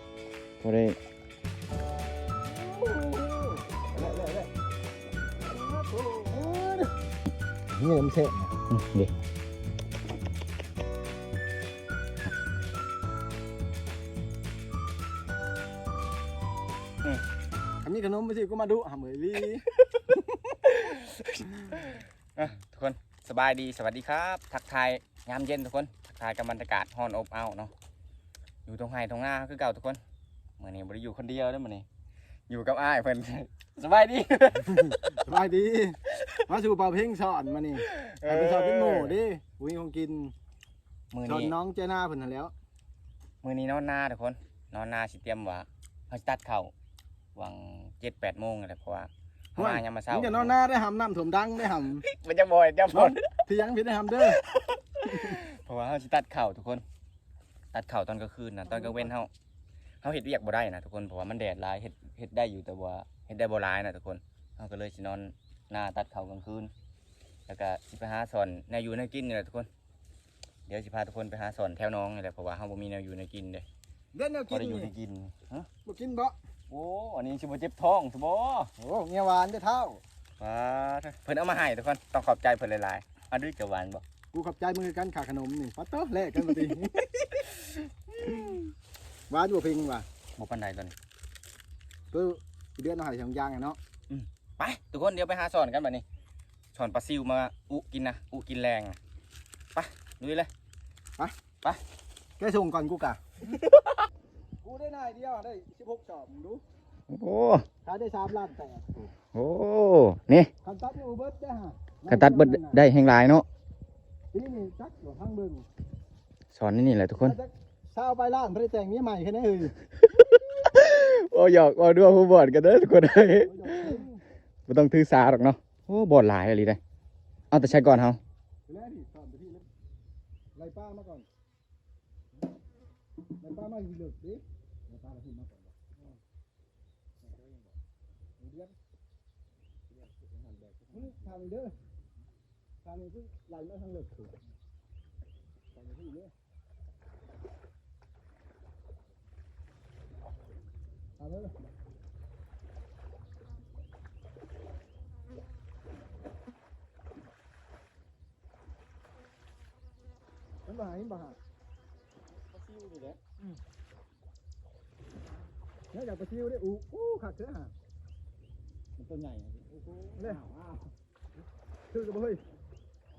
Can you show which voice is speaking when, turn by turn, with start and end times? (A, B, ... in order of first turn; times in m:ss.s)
0:00.6-0:01.0 A
0:02.5-0:04.5 B
0:05.5-0:06.9 B
0:07.7-0:08.6 B
0:08.7-0:09.1 A
0:17.8-0:20.6 B
0:20.6-0:27.7 A
0:28.7-0:30.0 A
0:30.6-0:31.9 A
0:32.5-0:35.0 A
0:34.8-0:40.3 B
0:37.8-0:39.2 A
0:41.1-0:41.5 A
0:41.2-0:42.5 B
0:43.4-0:46.7 A
0:47.3-0:50.5 A
0:49.6-0:52.0 B
0:51.9-0:53.2 A
0:52.9-0:54.4 B
0:54.2-0:56.8 A
0:55.0-0:55.4 B
0:57.7-0:59.3 A
0:58.7-0:59.1 B
1:00.0-1:06.7 A
1:07.5-1:09.7 A
1:10.7-1:13.7 A
1:14.1-1:14.9 B
1:14.5-1:15.7 A
1:15.8-1:16.3 B
1:16.7-1:18.7 A
1:18.8-1:20.0 B
1:20.4-1:24.0 A
1:24.3-1:27.1 B
1:26.5-1:27.5 A
1:28.2-1:28.6 B
1:28.3-1:28.5 A
1:29.3-1:30.1 B
1:30.4-1:30.9 A
1:32.1-1:33.8 B
1:34.1-1:36.0 A
1:36.7-1:39.0 A
1:39.7-1:40.5 A
1:42.4-1:43.3 B
1:43.4-1:44.0 A
1:44.6-1:46.6 B
1:47.1-1:47.7 A
1:47.8-1:49.1 B
1:49.3-1:50.5 A
1:50.6-1:52.8 B
1:52.1-1:53.4 A
1:54.3-1:55.7 B
1:56.5-1:57.4 A
1:57.2-1:59.7 B
2:00.0-2:04.0 A
2:03.4-2:04.2 B
2:04.7-2:06.8 A
2:07.5-2:08.2 A
2:08.7-2:09.7 B
2:10.6-2:11.3 B
2:13.4-2:16.2 B
2:17.2-2:17.7 A
2:18.4-2:18.8 B
2:19.9-2:21.4 A
2:20.9-2:21.8 B
2:22.8-2:24.4 B
2:25.7-2:26.3 B
2:31.2-2:31.5 B
2:40.7-2:41.4 B
2:42.3-2:43.6 A
2:45.9-2:47.7 B
2:49.0-2:50.9 A
2:51.9-2:52.4 B